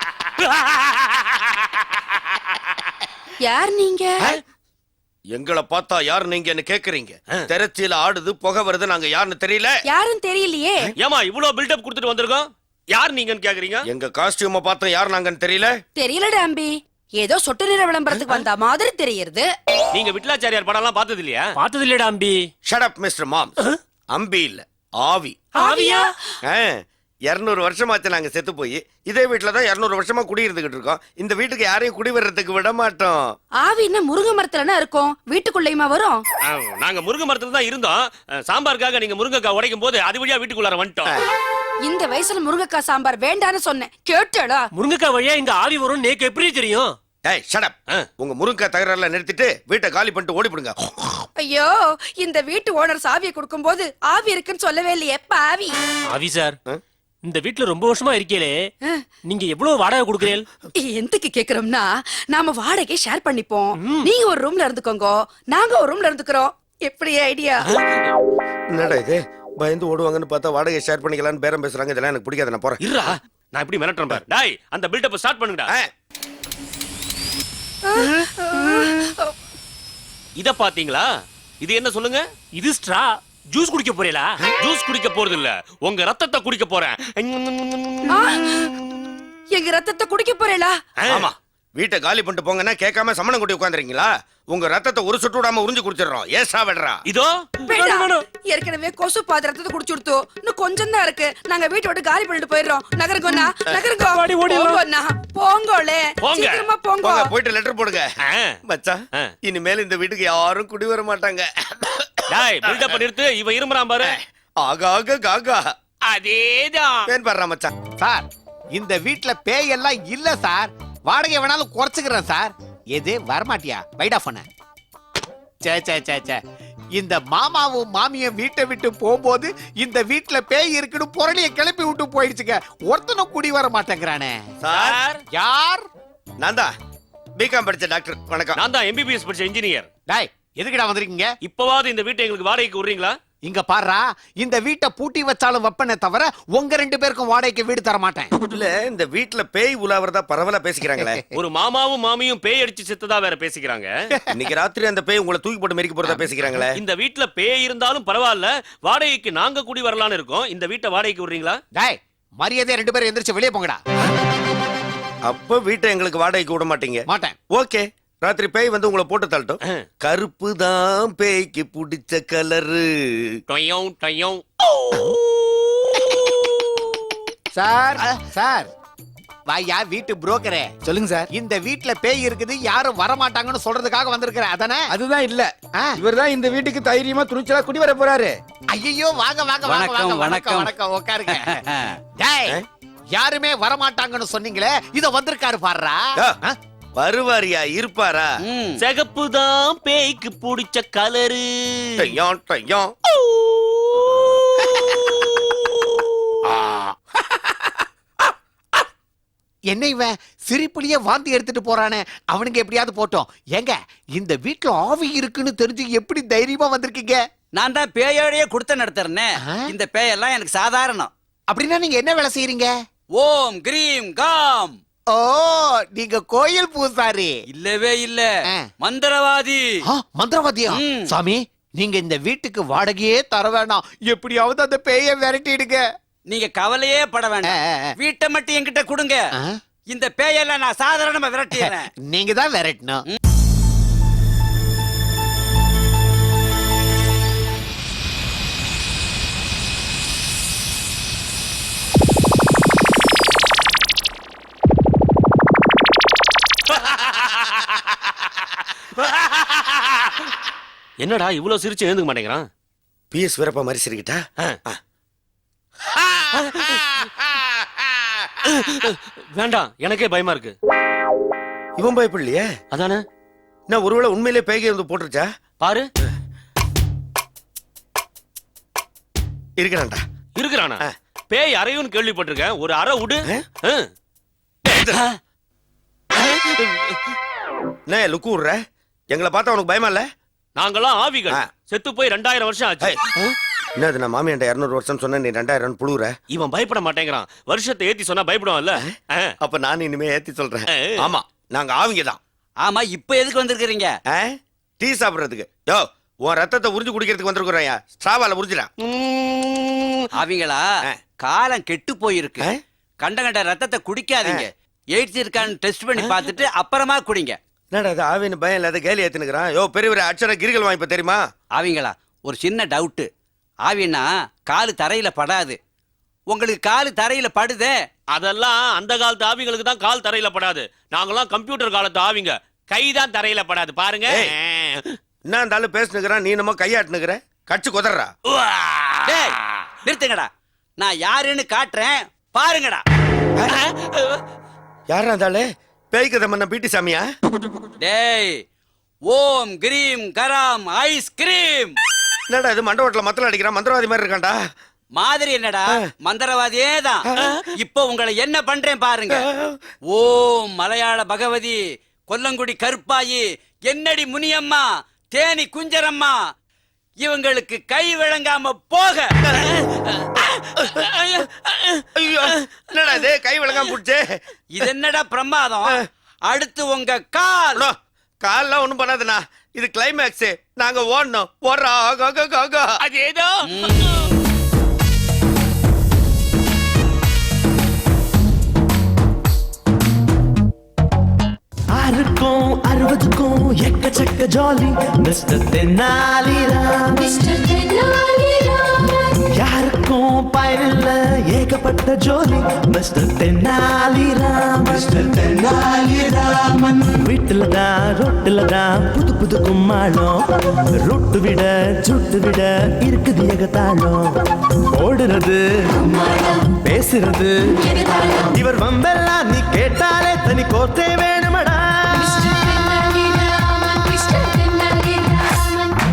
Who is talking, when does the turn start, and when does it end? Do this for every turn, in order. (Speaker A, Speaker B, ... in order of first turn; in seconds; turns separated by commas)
Speaker A: 0.4-1.5, Speaker B: 3.4-4.2, Speaker C: 5.3-9.8, Speaker B: 9.8-10.9, Speaker A: 11.0-13.8, Speaker C: 13.9-15.8, Speaker B: 16.0-19.5, Speaker A: 19.9-21.6, Speaker D: 21.5-22.5, Speaker C: 22.7-23.6, Speaker C: 24.1-25.4, Speaker D: 25.6-26.1, Speaker B: 25.6-26.1, Speaker C: 26.5-33.3, Speaker B: 33.6-36.2, Speaker A: 36.5-41.1, Speaker B: 41.8-44.7, Speaker D: 44.7-47.0, Speaker C: 47.2-51.3, Speaker B: 51.4-55.8, Speaker D: 56.1-56.6, Speaker D: 57.2-58.7, Speaker D: 59.3-60.5, Speaker B: 60.8-67.7, Speaker A: 67.7-68.0, Speaker C: 68.7-73.2, Speaker A: 72.8-75.7, Speaker B: 77.9-79.3, Speaker A: 80.4-81.1, Speaker A: 81.6-82.2, Speaker D: 82.6-84.4, Speaker A: 84.6-88.2, Speaker B: 88.1-88.7, Speaker B: 89.5-90.8, Speaker A: 91.0-91.3, Speaker C: 91.1-97.0, Speaker A: 97.1-97.6, Speaker B: 97.7-107.3, Speaker D: 97.7-98.2, Speaker D: 104.1-104.8, Speaker A: 106.2-106.6, Speaker C: 107.0-108.1, Speaker A: 108.2-108.6, Speaker C: 108.7-112.6, Speaker A: 112.3-114.2, Speaker C: 114.0-115.7, Speaker A: 116.0-117.1, Speaker D: 116.2-116.9, Speaker C: 117.1-117.7, Speaker E: 118.0-124.5, Speaker E: 125.6-126.4, Speaker E: 127.0-134.4, Speaker C: 134.6-135.0, Speaker A: 134.7-135.2, Speaker E: 135.3-135.8, Speaker C: 136.4-136.7, Speaker C: 137.4-138.6, Speaker A: 138.6-139.9, Speaker E: 140.1-141.3, Speaker A: 141.4-143.1, Speaker E: 143.4-148.3, Speaker C: 148.4-151.2, Speaker A: 151.3-153.9, Speaker C: 154.3-156.8, Speaker A: 156.7-161.6, Speaker E: 161.8-163.8, Speaker C: 165.3-173.4, Speaker E: 167.1-167.4, Speaker A: 173.5-174.4, Speaker A: 175.7-176.3, Speaker E: 177.5-178.7, Speaker E: 179.5-180.7, Speaker F: 180.8-181.3, Speaker E: 181.3-184.9, Speaker F: 184.9-188.4, Speaker E: 188.7-191.6, Speaker G: 189.6-190.7, Speaker G: 191.3-192.0, Speaker E: 192.2-192.6, Speaker E: 193.1-196.6, Speaker C: 197.0-198.3, Speaker G: 198.5-198.8, Speaker A: 198.8-202.2, Speaker C: 202.0-202.9, Speaker A: 204.4-205.0, Speaker E: 209.7-217.2, Speaker G: 217.5-221.1, Speaker E: 219.4-219.7, Speaker E: 221.5-222.7, Speaker G: 223.2-224.8, Speaker E: 225.1-227.4, Speaker G: 227.5-228.3, Speaker G: 228.8-229.6, Speaker E: 229.9-235.8, Speaker G: 230.7-231.2, Speaker G: 236.3-239.3, Speaker E: 237.4-237.9, Speaker G: 239.9-241.9, Speaker E: 241.5-243.0, Speaker A: 256.7-257.8, Speaker A: 258.9-260.1, Speaker A: 261.0-262.5, Speaker C: 263.1-264.8, Speaker A: 266.4-266.9, Speaker A: 268.4-270.6, Speaker C: 271.8-272.5, Speaker A: 272.7-273.0, Speaker C: 273.7-275.3, Speaker A: 275.6-275.9, Speaker C: 279.6-280.0, Speaker A: 280.4-283.9, Speaker C: 284.7-285.0, Speaker A: 286.2-287.0, Speaker C: 287.9-290.1, Speaker A: 290.6-293.1, Speaker C: 292.8-296.1, Speaker A: 296.3-299.3, Speaker C: 299.4-302.2, Speaker A: 300.7-301.0, Speaker G: 302.6-303.9, Speaker C: 304.1-308.7, Speaker A: 308.9-309.8, Speaker G: 310.1-312.5, Speaker G: 313.0-317.4, Speaker C: 316.0-316.3, Speaker C: 317.7-321.2, Speaker G: 321.6-323.1, Speaker G: 323.7-325.6, Speaker G: 326.3-327.8, Speaker A: 328.1-334.4, Speaker C: 334.1-334.3, Speaker C: 335.3-338.1, Speaker A: 338.3-339.0, Speaker G: 339.1-342.8, Speaker A: 343.8-344.2, Speaker C: 344.9-347.1, Speaker G: 347.8-348.4, Speaker G: 349.1-351.8, Speaker C: 352.3-354.4, Speaker G: 355.0-359.3, Speaker C: 357.1-357.5, Speaker C: 359.1-359.6, Speaker G: 359.9-366.2, Speaker G: 367.0-369.7, Speaker G: 370.7-371.3, Speaker C: 372.0-374.7, Speaker G: 374.6-377.6, Speaker C: 377.6-382.7, Speaker A: 382.8-384.1, Speaker G: 383.5-384.1, Speaker H: 391.8-397.4, Speaker B: 397.8-398.5, Speaker H: 399.4-422.6, Speaker B: 423.6-425.3